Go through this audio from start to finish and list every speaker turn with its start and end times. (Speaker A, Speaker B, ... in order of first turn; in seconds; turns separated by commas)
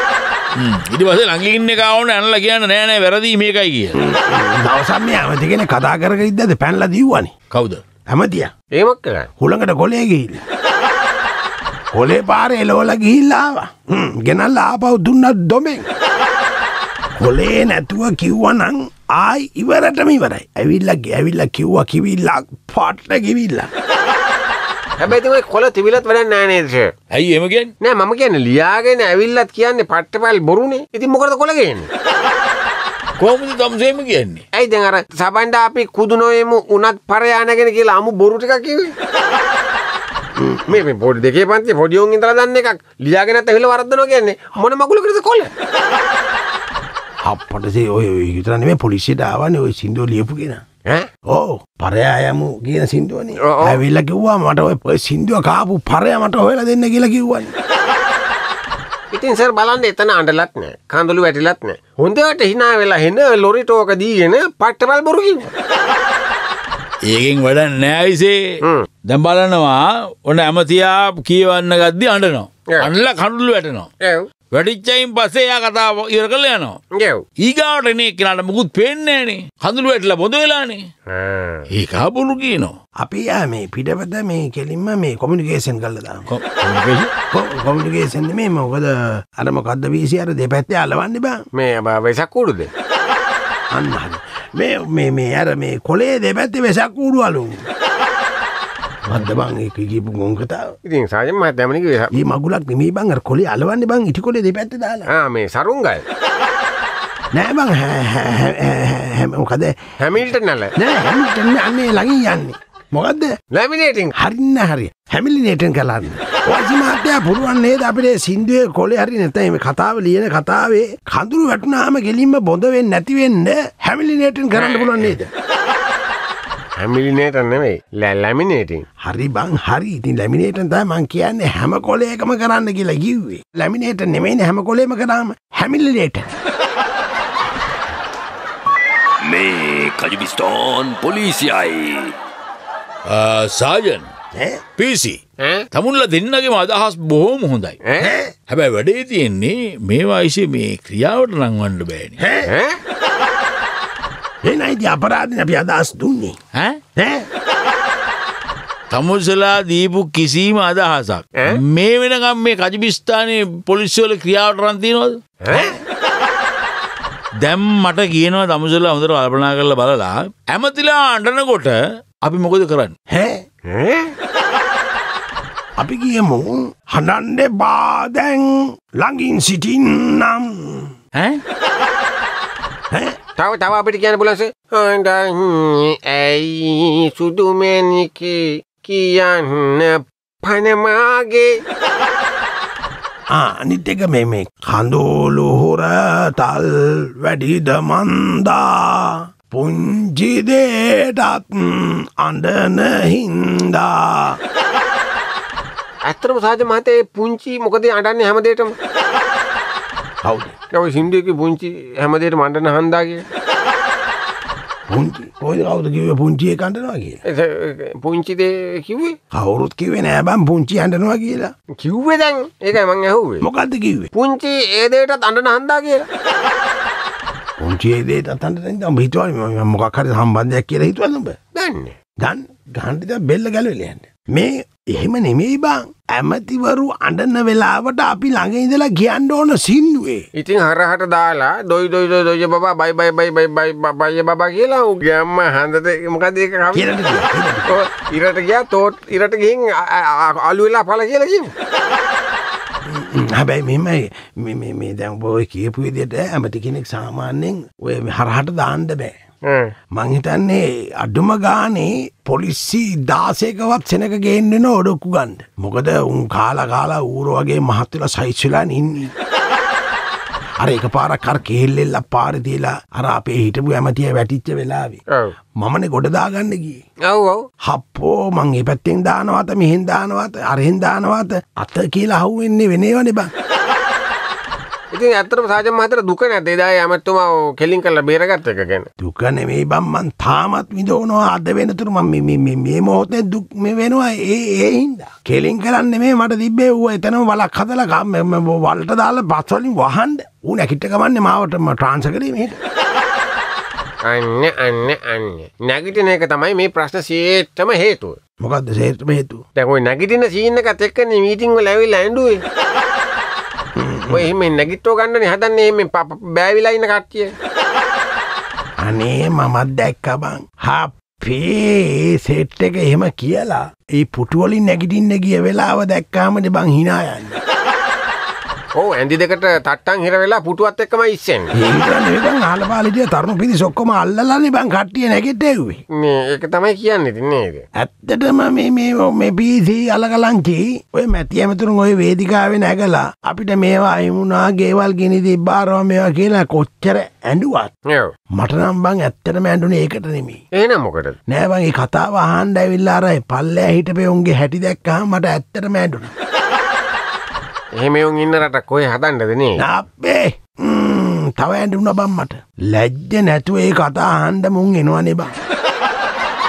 Speaker A: 0.6-4.0, Speaker B: 4.0-7.3, Speaker A: 7.5-7.8, Speaker B: 8.1-8.5, Speaker C: 8.7-9.3, Speaker B: 9.4-10.4, Speaker B: 11.9-15.9, Speaker B: 17.2-23.7, Speaker C: 25.0-26.9, Speaker A: 27.1-27.7, Speaker C: 27.8-31.9, Speaker A: 33.2-34.4, Speaker C: 34.5-38.9, Speaker B: 40.4-40.8, Speaker C: 40.7-45.5, Speaker B: 47.2-50.6, Speaker B: 51.3-57.5, Speaker C: 53.5-53.8, Speaker C: 59.1-65.5, Speaker A: 67.1-68.4, Speaker A: 69.1-73.9, Speaker A: 74.5-76.8, Speaker A: 77.4-80.8, Speaker C: 81.1-81.6, Speaker A: 81.7-82.7, Speaker B: 83.0-86.2, Speaker A: 86.3-87.1, Speaker B: 87.3-91.4, Speaker C: 91.5-92.7, Speaker B: 93.7-97.6, Speaker B: 99.0-100.7, Speaker C: 100.8-102.1, Speaker B: 102.1-105.1, Speaker C: 105.1-106.0, Speaker B: 107.3-113.3, Speaker C: 110.0-110.7, Speaker C: 113.5-114.1, Speaker B: 114.2-125.3, Speaker C: 124.5-125.2, Speaker C: 126.8-128.8, Speaker B: 129.0-136.3, Speaker D: 139.2-142.1, Speaker A: 143.1-144.1, Speaker B: 144.3-144.6, Speaker A: 144.8-145.2, Speaker A: 145.7-147.8, Speaker B: 148.0-148.3, Speaker A: 148.5-152.2, Speaker B: 152.2-152.5, Speaker C: 152.4-152.8, Speaker B: 154.4-156.3, Speaker B: 156.9-157.3, Speaker A: 158.9-165.2, Speaker C: 165.4-165.7, Speaker A: 167.4-172.9, Speaker B: 173.1-173.4, Speaker C: 173.7-174.1, Speaker B: 175.8-180.9, Speaker C: 183.4-191.5, Speaker B: 193.3-204.4, Speaker C: 206.1-208.7, Speaker B: 210.2-210.5, Speaker C: 210.7-213.2, Speaker B: 214.9-217.2, Speaker C: 217.2-219.1, Speaker B: 219.3-221.5, Speaker C: 221.8-223.4, Speaker B: 223.4-224.1, Speaker C: 224.1-226.0, Speaker B: 227.6-231.3, Speaker C: 231.5-231.9, Speaker B: 232.2-240.3, Speaker C: 240.4-246.9, Speaker B: 246.7-247.8, Speaker C: 247.7-251.5, Speaker B: 252.9-259.2, Speaker B: 259.9-269.1, Speaker B: 270.6-275.0, Speaker B: 275.6-276.8, Speaker C: 277.1-277.4, Speaker B: 277.6-283.3, Speaker C: 284.9-288.9, Speaker B: 289.0-302.6, Speaker C: 304.1-308.1, Speaker B: 308.4-309.4, Speaker C: 309.6-312.4, Speaker B: 313.8-314.3, Speaker C: 314.1-317.3, Speaker B: 318.8-327.4, Speaker C: 328.8-331.5, Speaker B: 331.5-335.8, Speaker C: 336.0-337.6, Speaker B: 337.7-347.7, Speaker B: 348.4-350.4, Speaker C: 350.6-351.1, Speaker B: 351.3-356.1, Speaker C: 357.8-359.6, Speaker B: 359.6-365.3